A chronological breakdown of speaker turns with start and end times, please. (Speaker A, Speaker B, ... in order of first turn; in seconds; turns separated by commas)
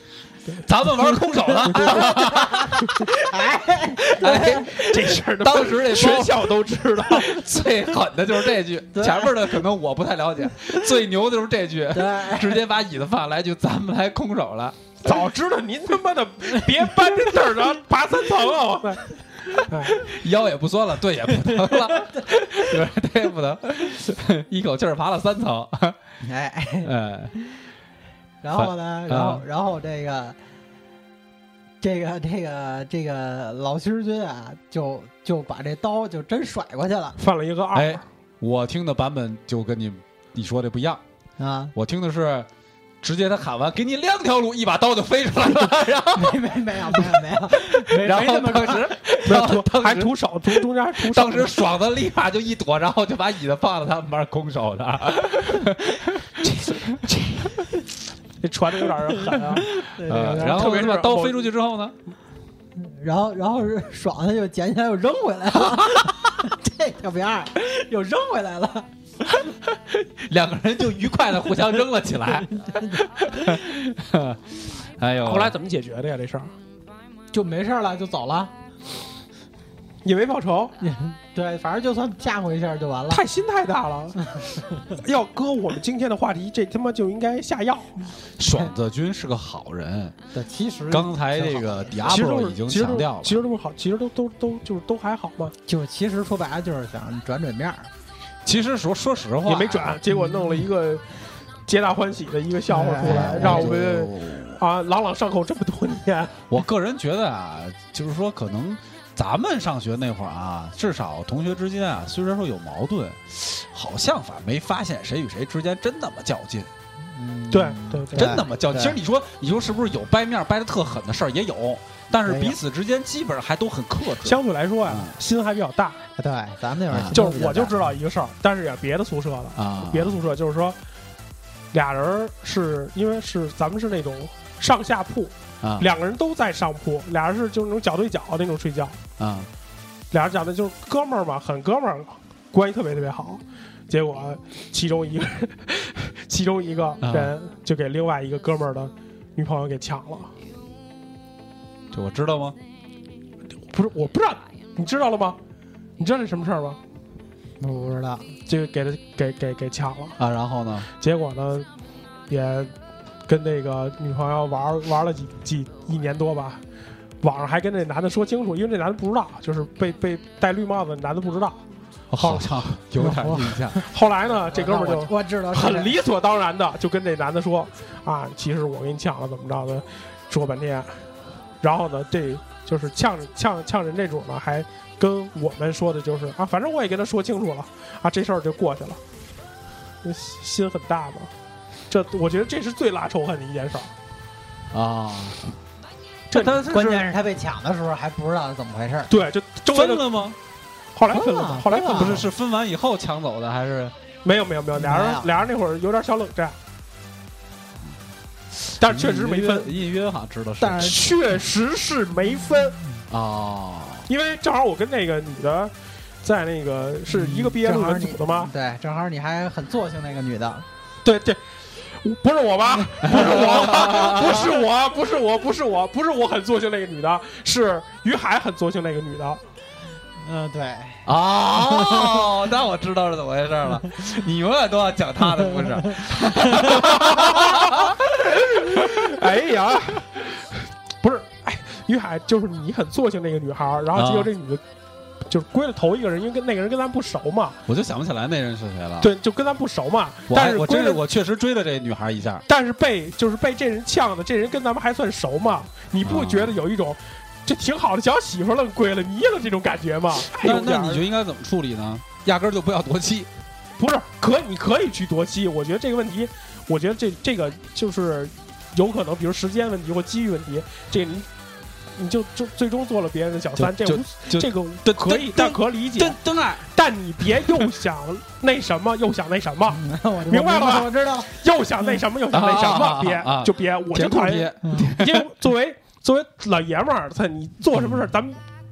Speaker A: 0.6-3.1, Speaker B: 1.5-4.7, Speaker C: 1.7-2.1, Speaker A: 4.1-14.8, Speaker C: 4.2-7.3, Speaker B: 8.9-9.4, Speaker B: 11.9-12.6, Speaker C: 15.0-20.0, Speaker A: 19.9-26.0, Speaker B: 21.6-22.1, Speaker B: 26.2-26.9, Speaker A: 26.8-27.3, Speaker B: 28.4-30.4, Speaker A: 28.6-29.4, Speaker B: 31.8-37.2, Speaker C: 37.2-38.0, Speaker A: 37.7-41.0, Speaker B: 41.4-41.7, Speaker A: 41.8-42.5, Speaker A: 43.0-46.4, Speaker B: 46.1-48.9, Speaker A: 46.9-56.9, Speaker C: 48.5-51.6, Speaker C: 58.4-59.7, Speaker B: 59.2-60.8, Speaker A: 60.0-62.0, Speaker C: 60.4-61.5, Speaker B: 62.8-68.9, Speaker A: 65.7-66.2, Speaker A: 69.5-74.4, Speaker B: 72.5-73.5, Speaker A: 75.0-75.5, Speaker C: 75.2-76.5, Speaker B: 77.3-78.5, Speaker C: 80.0-80.7, Speaker B: 80.8-83.2, Speaker C: 83.1-88.0, Speaker A: 88.4-90.2, Speaker B: 90.3-92.1, Speaker A: 90.9-93.4, Speaker C: 92.0-95.5, Speaker B: 95.7-97.9, Speaker A: 98.5-100.0, Speaker C: 99.5-101.1, Speaker C: 101.7-106.5, Speaker B: 102.7-103.7, Speaker A: 103.0-104.6, Speaker A: 106.5-116.7, Speaker B: 117.1-119.0, Speaker C: 117.5-118.4, Speaker A: 118.2-125.2, Speaker B: 122.3-122.6, Speaker C: 124.2-126.0, Speaker B: 126.2-127.7, Speaker A: 126.9-127.2, Speaker C: 127.1-130.8, Speaker A: 129.6-130.2, Speaker C: 131.7-139.0, Speaker A: 135.6-135.9, Speaker A: 139.2-139.5, Speaker C: 140.1-150.3, Speaker A: 147.0-147.3, Speaker A: 151.9-152.6, Speaker C: 153.7-155.4, Speaker C: 156.0-156.8, Speaker B: 157.6-158.3, Speaker C: 158.5-160.2, Speaker A: 160.2-160.9, Speaker C: 161.0-161.7, Speaker C: 162.3-162.7, Speaker C: 163.3-166.6, Speaker C: 167.2-171.6, Speaker A: 172.1-173.8, Speaker B: 173.0-173.8, Speaker C: 173.8-181.0, Speaker B: 174.5-175.9, Speaker C: 181.6-189.0, Speaker C: 190.0-191.3, Speaker C: 191.9-193.9, Speaker A: 194.7-195.6, Speaker C: 196.3-197.1, Speaker B: 196.3-199.1, Speaker C: 199.1-200.2, Speaker A: 199.7-200.4, Speaker C: 200.9-202.3, Speaker B: 201.1-202.2, Speaker A: 201.9-203.9, Speaker C: 204.2-206.6, Speaker B: 204.8-205.3, Speaker C: 208.8-209.8, Speaker A: 208.8-211.0, Speaker B: 210.6-211.0, Speaker C: 210.8-212.8, Speaker A: 213.1-214.1, Speaker C: 214.1-218.5, Speaker B: 217.1-220.7, Speaker C: 221.0-229.4, Speaker A: 223.0-224.6, Speaker B: 230.2-231.1, Speaker A: 231.1-239.1, Speaker B: 231.8-232.2, Speaker C: 236.9-237.8, Speaker C: 238.5-244.6, Speaker A: 243.9-244.3, Speaker C: 245.3-247.6, Speaker A: 247.7-249.1, Speaker C: 249.0-251.0, Speaker A: 250.3-252.4, Speaker C: 252.5-261.1, Speaker A: 256.0-256.6, Speaker A: 260.3-263.3, Speaker C: 263.8-271.3, Speaker C: 271.9-276.2, Speaker A: 273.6-276.6, Speaker C: 276.7-288.4, Speaker B: 279.7-281.3, Speaker A: 282.3-285.3, Speaker B: 284.6-284.9